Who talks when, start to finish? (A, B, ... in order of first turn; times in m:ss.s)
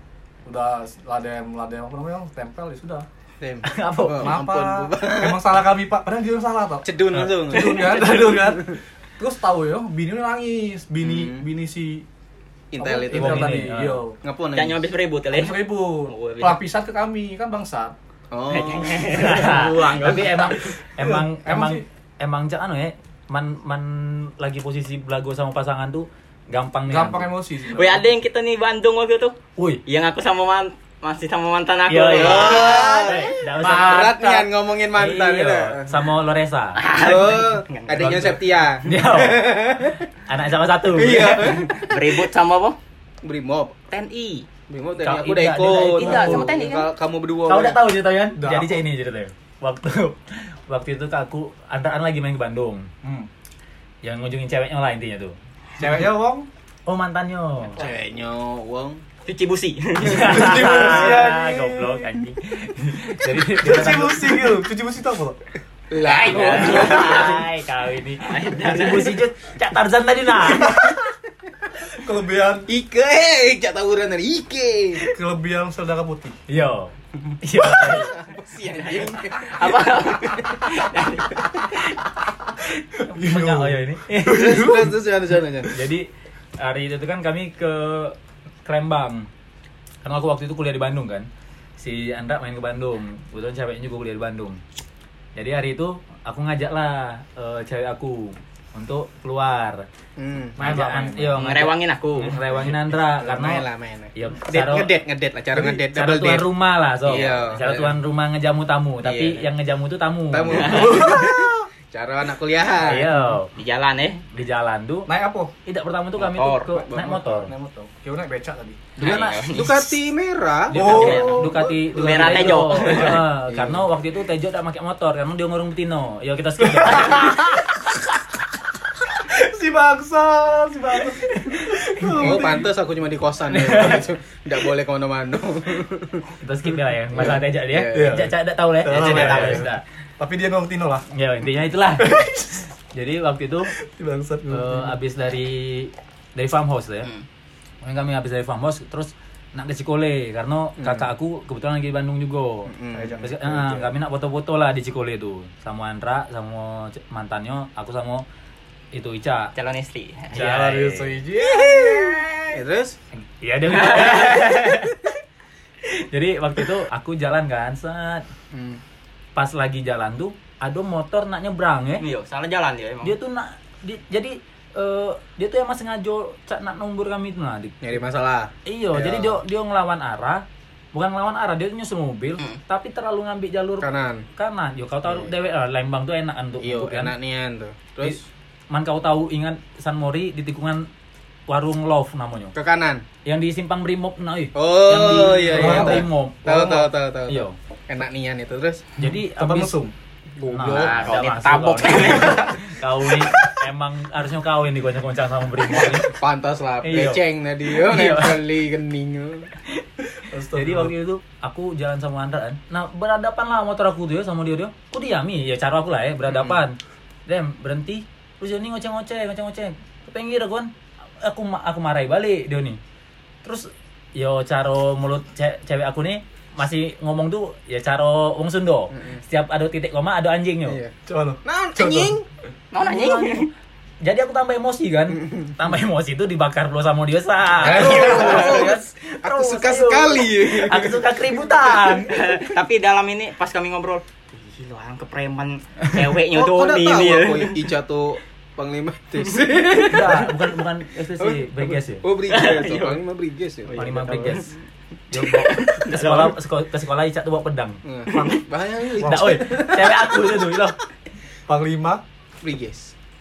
0:00.4-0:03.1 A
0:03.4-0:05.6 B
0:03.6-0:04.4 C
0:04.2-0:12.0 A
0:06.8-0:08.8 B
0:07.1-0:07.6 C
0:11.0-0:11.5 B
0:12.7-0:13.7 B
0:12.8-0:14.2 A
0:13.1-0:14.0 C
0:14.2-0:14.8 B
0:14.5-0:16.6 D
0:15.3-0:18.0 A
0:18.3-0:19.6 B
0:18.5-0:20.7 D
0:19.1-0:27.3 C
0:21.0-0:21.8 A
0:26.9-0:28.1 A
0:27.7-0:29.4 D
0:29.9-0:33.2 D
0:31.9-0:36.8 C
0:32.1-0:35.9 B
0:36.8-0:38.4 D
0:37.0-0:40.0 B
0:38.0-0:41.6 C
0:40.9-0:42.2 B
0:41.7-0:42.8 D
0:43.2-0:43.8 B
0:43.9-0:44.5 D
0:44.7-0:47.8 B
0:45.0-0:46.5 C
0:45.9-0:46.9 D
0:47.5-0:52.9 C
0:48.4-0:48.7 A
0:53.0-0:53.3 A
0:54.0-0:55.4 C
0:55.8-0:56.5 A
0:56.9-0:57.8 C
0:57.7-0:59.0 B
0:59.3-1:00.8 D
1:00.0-1:04.6 C
1:00.0-1:02.2 A
1:03.5-1:05.4 A
1:05.9-1:07.4 B
1:06.0-1:07.4 D
1:06.2-1:10.8 C
1:08.2-1:09.2 D
1:10.6-1:11.0 A
1:12.0-1:12.7 A
1:12.7-1:15.1 B
1:15.1-1:16.4 A
1:16.5-1:18.2 C
1:17.6-1:20.5 B
1:18.7-1:21.7 D
1:23.0-1:24.7 C
1:23.0-1:25.0 A
1:24.3-1:25.8 B
1:25.7-1:26.1 C
1:26.6-1:29.3 C
1:30.0-1:31.3 C
1:31.8-1:34.6 C
1:35.4-1:39.8 C
1:40.2-1:40.9 B
1:40.6-1:44.9 C
1:40.6-1:41.4 A
1:41.4-1:42.4 D
1:43.2-1:46.5 B
1:45.5-1:45.8 A
1:45.9-1:51.1 C
1:47.0-1:48.0 B
1:49.0-1:49.5 B
1:50.3-1:53.1 B
1:50.6-1:50.9 D
1:50.6-1:51.7 A
1:52.8-1:53.5 C
1:53.6-1:54.2 D
1:54.3-1:55.1 C
1:55.1-1:55.5 A
1:55.7-1:57.5 C
1:56.2-1:56.6 D
1:56.8-1:58.9 A
1:59.0-1:59.8 D
1:59.0-2:01.6 B
1:59.0-1:59.4 C
2:00.7-2:07.4 C
2:00.7-2:03.2 A
2:00.8-2:03.2 D
2:03.5-2:03.9 B
2:06.6-2:07.7 A
2:09.2-2:12.7 A
2:11.5-2:12.4 C
2:12.1-2:16.3 B
2:13.5-2:14.0 C
2:16.4-2:19.8 C
2:17.1-2:18.3 B
2:17.9-2:21.1 A
2:19.0-2:19.6 D
2:21.1-2:22.3 C
2:22.0-2:22.6 A
2:22.9-2:23.7 C
2:23.8-2:25.0 A
2:24.5-2:27.1 C
2:27.8-2:38.3 C
2:30.8-2:31.1 B
2:32.7-2:33.2 B
2:32.9-2:33.9 A
2:38.9-2:39.5 C
2:39.6-2:40.4 D
2:40.3-2:41.2 C
2:40.4-2:42.3 A
2:42.5-2:43.0 B
2:43.4-2:45.0 C
2:43.8-2:44.7 D
2:45.9-2:48.2 C
2:48.5-2:48.8 B
2:49.4-2:52.0 C
2:52.0-2:53.2 D
2:53.0-2:57.8 C
2:57.8-2:59.4 B
2:58.7-3:07.2 C
3:03.8-3:04.2 B
3:06.6-3:08.3 B
3:08.0-3:10.9 C
3:11.5-3:12.6 C
3:12.5-3:13.0 B
3:13.2-3:17.6 C
3:14.6-3:18.9 B
3:15.5-3:16.1 A
3:19.0-3:19.8 C
3:19.4-3:19.9 A
3:20.4-3:21.1 B
3:20.5-3:26.1 C
3:20.7-3:22.6 D
3:25.7-3:29.5 B
3:26.8-3:28.4 C
3:30.3-3:30.9 A
3:30.5-3:40.7 C
3:36.3-3:36.6 B
3:41.2-3:42.8 C
3:43.4-3:50.8 C
3:50.6-3:50.9 B
3:51.1-3:52.2 A
3:51.4-3:52.2 B
3:52.7-3:53.5 D
3:52.8-3:53.5 C
3:54.0-4:02.2 C
3:57.6-4:01.4 B
3:57.7-3:58.3 A
4:02.1-4:07.6 D
4:06.3-4:10.3 B
4:09.8-4:12.0 C
4:11.2-4:14.4 B
4:12.3-4:13.0 D
4:13.8-4:14.5 C
4:13.8-4:14.1 A
4:15.1-4:17.8 C
4:15.2-4:16.3 D
4:17.8-4:19.6 B
4:18.1-4:18.4 A
4:19.0-4:20.0 A
4:19.0-4:20.8 C
4:21.5-4:22.0 A
4:22.4-4:22.9 B